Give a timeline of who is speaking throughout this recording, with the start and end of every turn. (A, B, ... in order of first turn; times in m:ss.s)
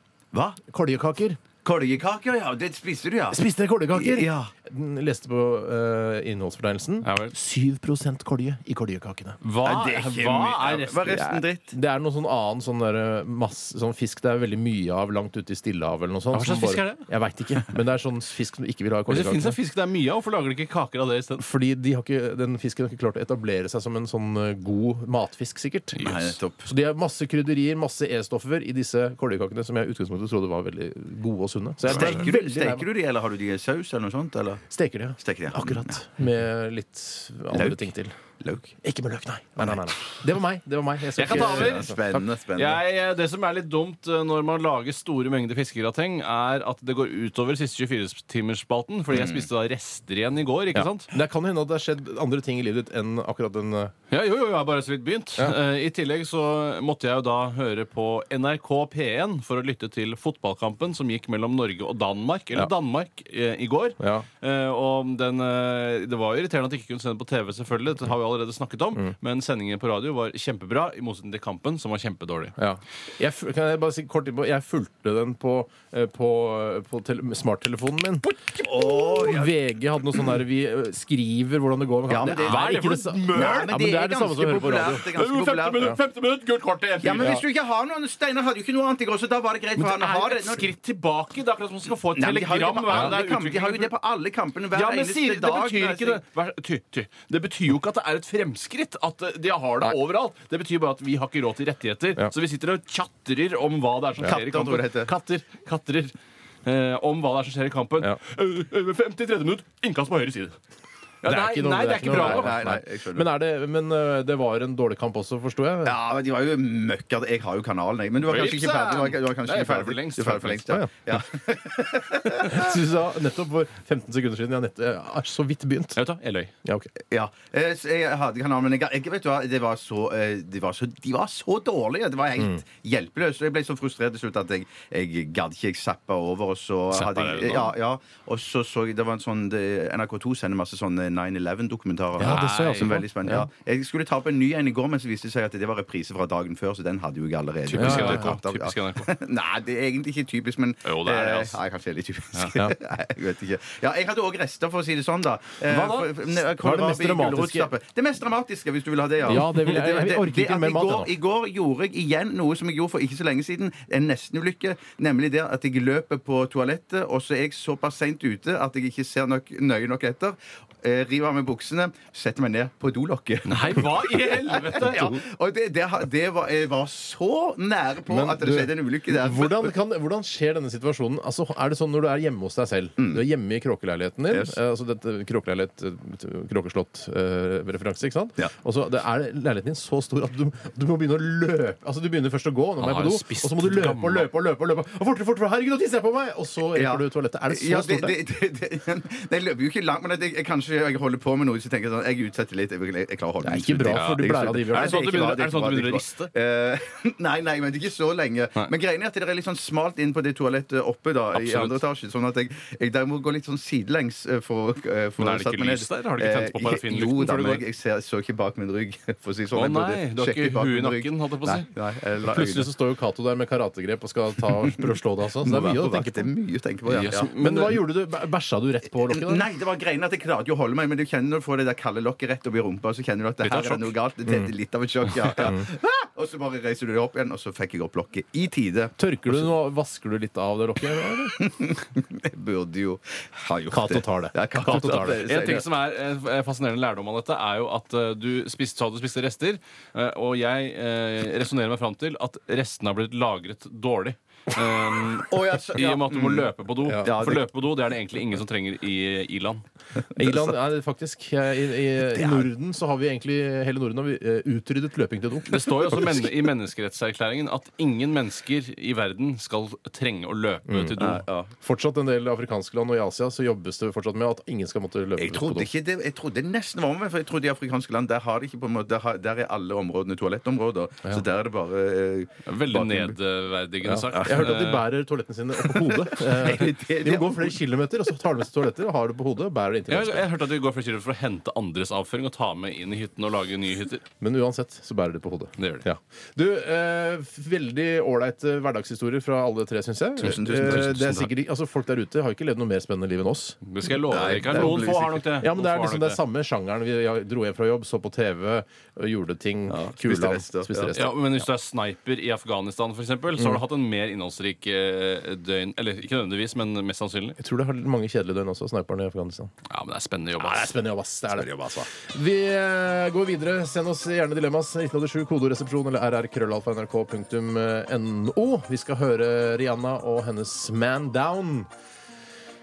0:00.3-0:00.6 A
0:00.6-0:01.4 B
0:01.6-0:04.5 A
0:03.3-0:09.4 B
0:07.0-0:07.3 C
0:09.4-0:11.2 C
0:09.6-0:11.7 A
0:11.1-0:19.6 B
0:16.3-0:17.0 C
0:19.1-0:21.4 C
0:21.4-0:26.0 B
0:26.0-0:26.4 C
0:26.0-0:26.7 A
0:26.6-0:32.9 B
0:31.9-0:34.6 A
0:34.7-0:38.2 B
0:35.2-0:36.0 A
0:37.5-0:37.9 A
0:38.4-0:38.8 A
0:38.8-0:42.0 B
0:39.6-0:39.9 A
0:41.2-0:51.1 C
0:41.3-0:42.8 A
0:49.1-0:49.5 A
0:50.7-0:53.9 B
0:54.1-1:12.5 C
1:04.0-1:04.3 B
1:12.6-1:25.1 B
1:18.6-1:19.5 A
1:22.1-1:22.7 A
1:22.2-1:23.7 C
1:23.3-1:25.9 A
1:25.0-1:27.4 C
1:27.0-1:30.7 A
1:29.8-1:33.9 C
1:32.1-1:36.2 A
1:32.9-1:33.2 B
1:34.7-1:46.1 C
1:44.2-1:45.1 A
1:46.6-1:50.6 C
1:51.2-1:52.6 C
1:51.2-1:56.0 B
1:52.0-1:53.3 A
1:55.8-2:02.8 A
1:58.2-2:00.8 C
2:02.4-2:06.0 B
2:06.0-2:06.5 C
2:06.6-2:06.9 B
2:07.1-2:59.7 A
2:16.9-2:17.7 C
2:22.2-2:23.5 B
2:22.2-2:23.0 C
2:27.7-2:29.1 C
2:27.8-2:28.4 B
2:30.8-2:31.6 C
2:35.7-2:36.1 C
2:36.3-2:37.7 B
2:39.3-2:41.1 B
2:53.5-2:55.2 C
2:58.1-3:18.2 B
3:04.3-3:04.6 A
3:12.8-3:14.3 C
3:16.7-3:42.7 A
3:23.4-3:25.0 B
3:23.9-3:26.3 C
3:31.3-3:31.8 C
3:35.2-3:37.6 C
3:39.5-3:41.7 C
3:42.3-3:46.3 B
3:44.4-3:47.3 A
3:46.9-3:47.8 C
3:46.9-3:49.5 B
3:49.1-3:59.5 A
3:53.4-3:54.0 C
3:55.1-3:55.5 C
3:59.0-4:01.4 B
4:01.4-4:05.7 A
4:03.7-4:05.3 B
4:05.2-4:19.6 C
4:15.3-4:17.5 A
4:16.8-4:17.2 B
4:20.2-4:26.3 B
4:20.2-4:20.5 A
4:22.2-4:22.5 A
4:25.5-4:31.2 C
4:30.7-4:31.0 B
4:31.0-4:31.5 A
4:31.6-4:35.7 B
4:35.2-4:43.2 A
4:42.4-4:44.8 C
4:43.8-4:50.3 B
4:44.1-4:44.5 A
4:45.6-4:47.6 A
4:49.9-4:54.0 C
4:54.2-5:04.8 B
4:55.6-4:55.9 C
5:00.2-5:01.0 A
5:00.2-5:01.3 C
5:03.6-5:06.2 C
5:04.1-5:05.2 A
5:05.4-5:11.1 B
5:09.7-5:11.0 A
5:10.9-5:17.4 C
5:13.4-5:13.6 B
5:17.4-5:19.5 B
5:19.7-5:20.8 C
5:20.4-5:31.7 B
5:21.3-5:21.9 C